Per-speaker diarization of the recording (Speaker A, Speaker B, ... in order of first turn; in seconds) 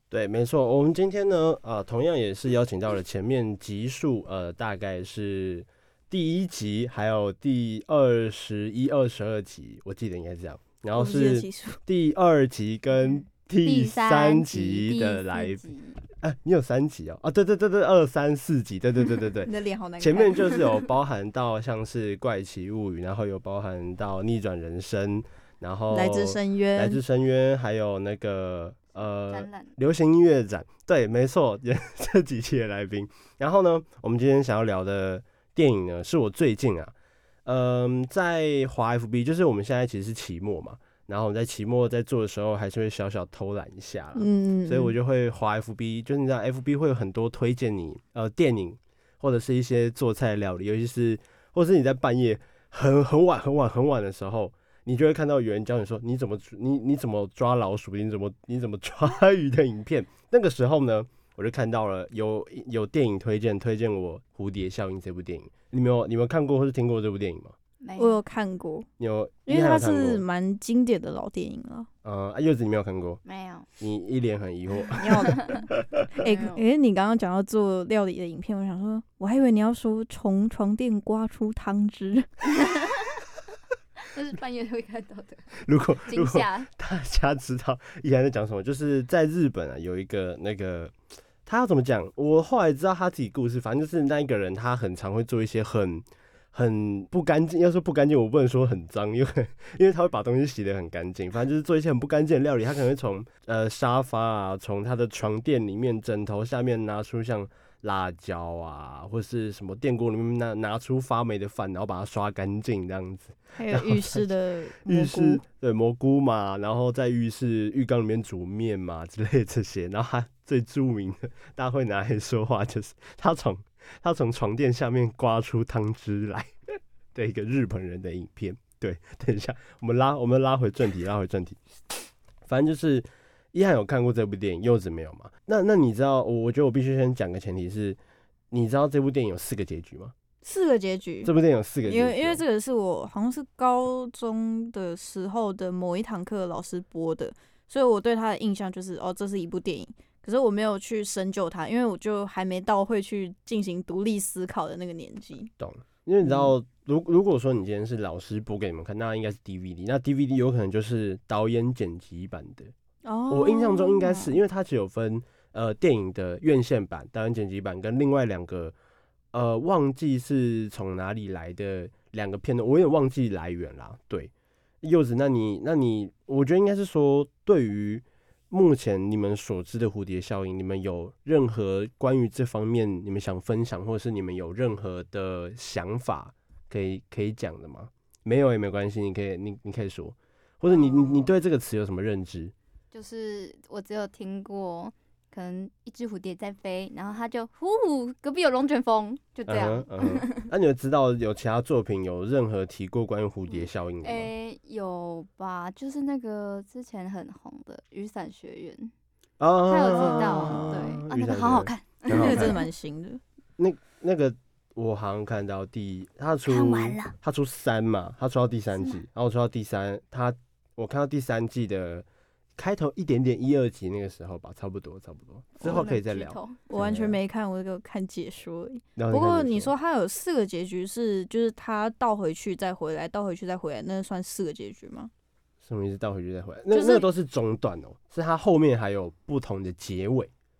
Speaker A: 0.1-36.9, 37.4-67.5, 69.0-70.2, 72.0-73.2, 73.8-76.1, 85.6-90.9, 91.5-114.2, 114.8-131.8, 132.5-138.0, 138.5-140.1, 141.2-142.4, 155.6-162.7, 163.3-168.7, 169.3-174.3, 174.8-192.5, 199.5-204.3, 209.4-212.6, 213.6-227.2, 228.9-229.7, 235.6-240.3
Speaker B: 10.9-11.8, 19.4-20.5, 25.9-27.0, 44.1-44.9, 68.0-68.9, 69.5-71.9, 75.0-75.6, 76.2-82.3, 113.5-115.4, 140.4-141.3, 141.8-155.5, 156.2-156.5, 163.0-164.3, 209.8-211.0, 212.1-213.2, 226.7-235.1, 236.7-237.1
Speaker C: 13.0-16.0, 29.3-29.7, 67.8-68.2, 73.2-73.7, 76.2-76.6, 82.6-83.2, 84.0-85.5, 86.1-86.7, 190.7-191.3, 192.9-200.5, 203.5-208.9, 209.7-212.7, 216.4-217.1, 225.6-226.6